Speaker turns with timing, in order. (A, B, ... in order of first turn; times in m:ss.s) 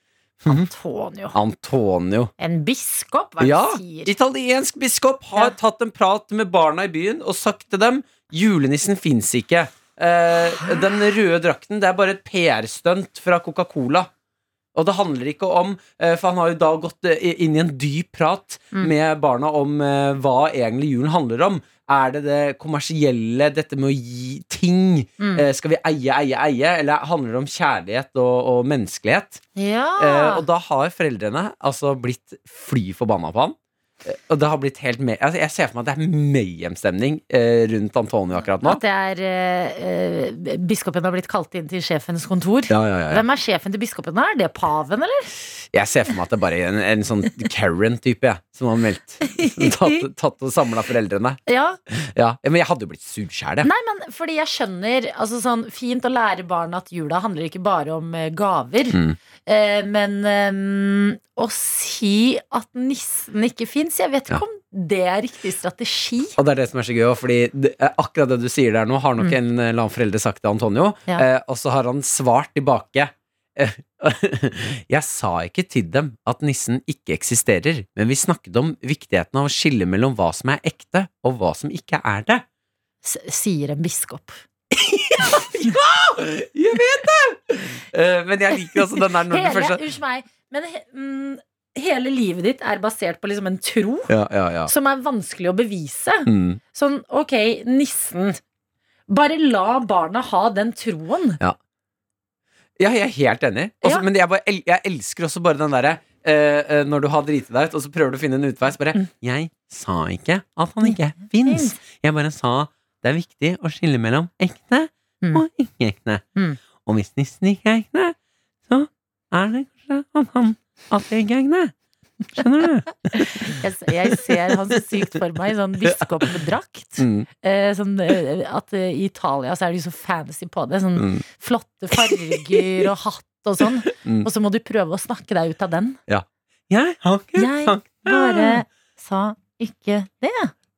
0:00.4-0:00.7 A
0:00.5-0:01.4 B
0:01.3-0:02.3 A
0:02.4-0:04.1 B
0:03.4-0:14.1 A
0:14.8-0:29.4 A
0:25.2-0:25.5 B
0:29.6-0:30.4 B
0:30.0-0:38.8 A
0:38.6-0:45.3 B
0:42.7-0:43.2 A
0:45.7-0:53.7 A
0:49.3-0:50.0 B
0:51.5-0:51.8 B
0:53.6-1:06.4 B
0:58.9-0:59.2 A
1:06.4-1:22.4 A
1:23.0-1:24.4 B
1:24.7-1:29.8 A
1:29.3-1:34.1 B
1:34.1-1:34.7 A
1:34.6-1:38.4 B
1:36.3-1:36.6 A
1:39.1-1:41.4 B
1:42.8-1:56.2 A
1:50.8-1:51.8 B
1:56.8-1:58.2 A
1:58.7-2:01.7 A
2:02.4-2:04.8 A
2:03.1-2:16.0 B
2:05.9-2:06.3 A
2:07.0-2:07.3 A
2:11.0-2:11.2 A
2:11.9-2:12.6 A
2:13.9-2:14.3 A
2:16.1-2:18.6 A
2:17.4-2:20.5 B